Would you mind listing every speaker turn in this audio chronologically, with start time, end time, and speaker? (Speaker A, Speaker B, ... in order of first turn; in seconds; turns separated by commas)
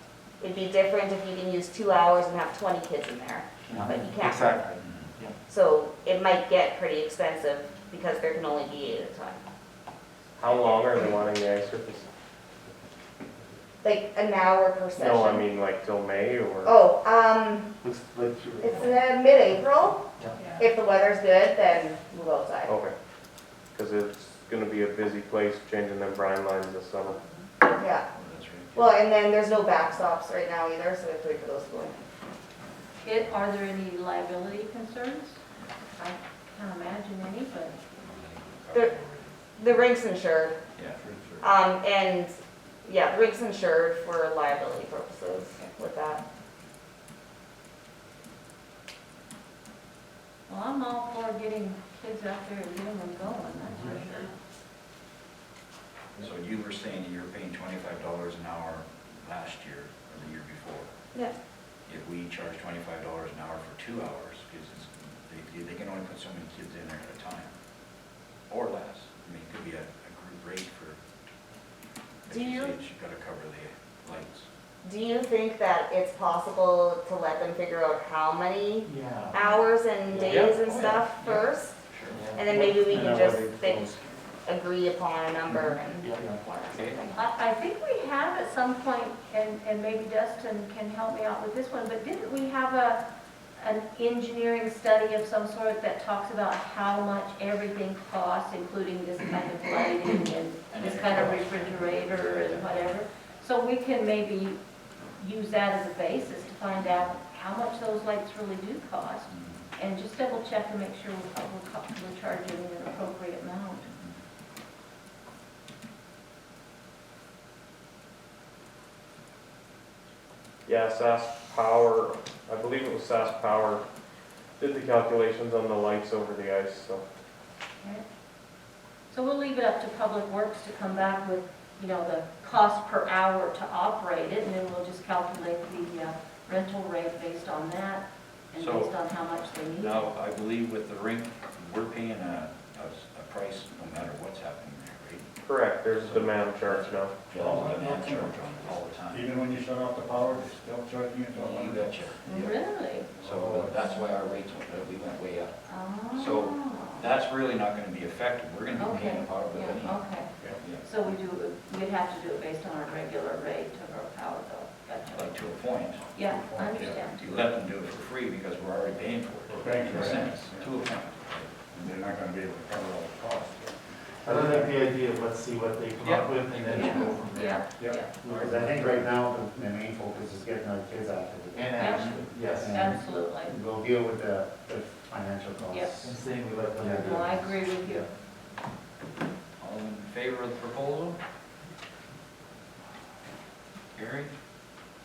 Speaker A: 0.4-4.6, Speaker B: 3.7-5.3, Speaker A: 5.5-9.4, Speaker C: 10.4-12.1, Speaker A: 13.8-15.5, Speaker C: 15.0-16.7, Speaker A: 16.6-17.7, Speaker B: 17.8-18.9, Speaker A: 18.6-20.0, Speaker A: 20.6-22.7, Speaker C: 22.7-22.9, Speaker C: 23.7-27.2, Speaker A: 27.7-28.1, Speaker D: 28.1-28.8, Speaker A: 28.7-32.0, Speaker E: 33.0-35.4, Speaker E: 36.0-37.8, Speaker D: 38.0-39.3, Speaker A: 39.6-40.5, Speaker D: 40.8-41.4, Speaker F: 41.0-41.3, Speaker A: 41.4-46.2, Speaker E: 50.5-54.3, Speaker D: 56.2-60.9, Speaker D: 61.9-67.5, Speaker D: 68.5-71.0, Speaker D: 72.3-74.5, Speaker A: 72.3-72.7, Speaker A: 74.8-81.7, Speaker B: 78.9-79.4, Speaker D: 80.3-82.2, Speaker B: 82.1-82.5, Speaker A: 82.3-87.1, Speaker G: 82.5-84.1, Speaker B: 85.5-86.3, Speaker D: 86.7-87.0, Speaker E: 87.0-93.0, Speaker E: 93.6-104.6, Speaker D: 100.7-102.9, Speaker E: 105.2-113.9, Speaker D: 109.3-109.6, Speaker C: 120.7-123.8, Speaker C: 124.6-127.0, Speaker E: 129.1-140.1, Speaker D: 138.6-138.9, Speaker D: 139.8-145.3, Speaker C: 145.4-147.2, Speaker D: 145.9-149.3, Speaker F: 147.3-152.5, Speaker D: 151.3-152.2, Speaker E: 152.3-153.1, Speaker F: 153.2-153.9, Speaker D: 153.2-155.5, Speaker E: 155.7-157.1, Speaker D: 156.1-160.0, Speaker E: 158.8-160.3, Speaker D: 160.6-160.8, Speaker E: 160.8-165.4, Speaker D: 165.1-166.1, Speaker E: 166.1-167.2, Speaker F: 166.2-167.4, Speaker D: 167.2-171.7, Speaker F: 169.6-170.6, Speaker G: 169.7-170.0, Speaker F: 171.7-173.8, Speaker G: 174.2-174.8, Speaker B: 174.2-177.6, Speaker D: 176.0-177.1, Speaker E: 176.7-178.1, Speaker G: 176.9-177.2, Speaker F: 177.8-178.1, Speaker B: 178.2-179.0, Speaker G: 178.3-186.1, Speaker E: 181.8-183.5, Speaker B: 182.2-182.8, Speaker E: 185.7-186.1, Speaker B: 186.0-188.0, Speaker G: 186.7-187.3, Speaker E: 186.8-188.1, Speaker D: 189.6-191.2, Speaker D: 193.9-194.3